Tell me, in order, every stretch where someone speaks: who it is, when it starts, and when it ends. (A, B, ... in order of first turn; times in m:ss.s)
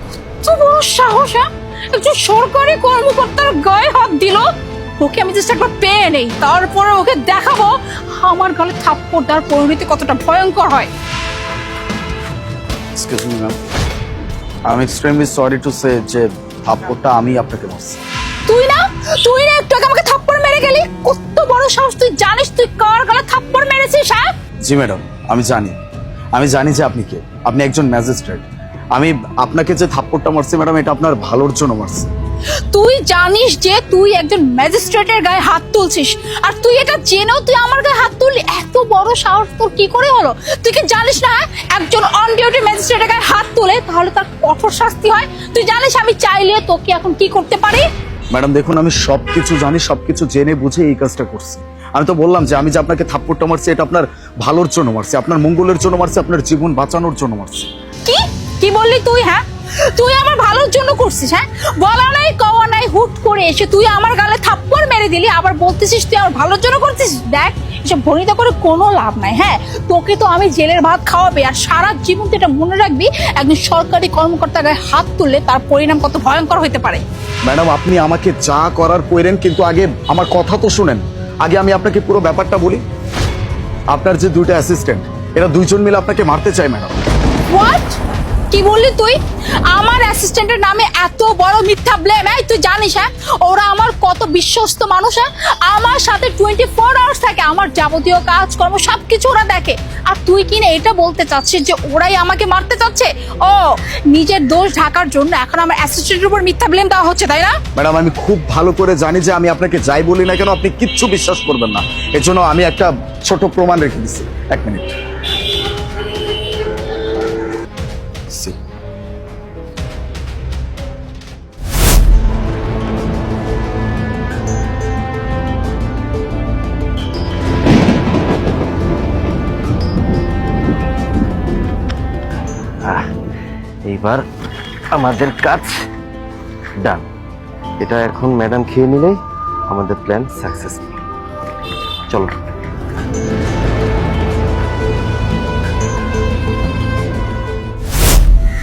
0:00.4-0:04.5 A
0:05.0-0:10.9 A
0:13.0-0:13.7 B
0:14.7-0:18.0 B
0:18.5-0:24.3 A
0:24.6-0:25.8 B
0:26.3-0:32.1 B
0:32.7-0:47.9 A
0:48.3-0:57.7 B
0:58.0-1:17.0 A
1:17.5-1:22.8 B
1:23.9-1:27.0 B
1:27.5-1:28.0 A
1:28.5-1:29.2 A
1:29.7-1:47.6 A
1:47.8-1:55.0 B
1:58.3-1:58.6 B
2:12.8-2:13.1 C
2:13.9-2:14.2 C
2:14.9-2:15.9 C
2:17.8-2:20.9 C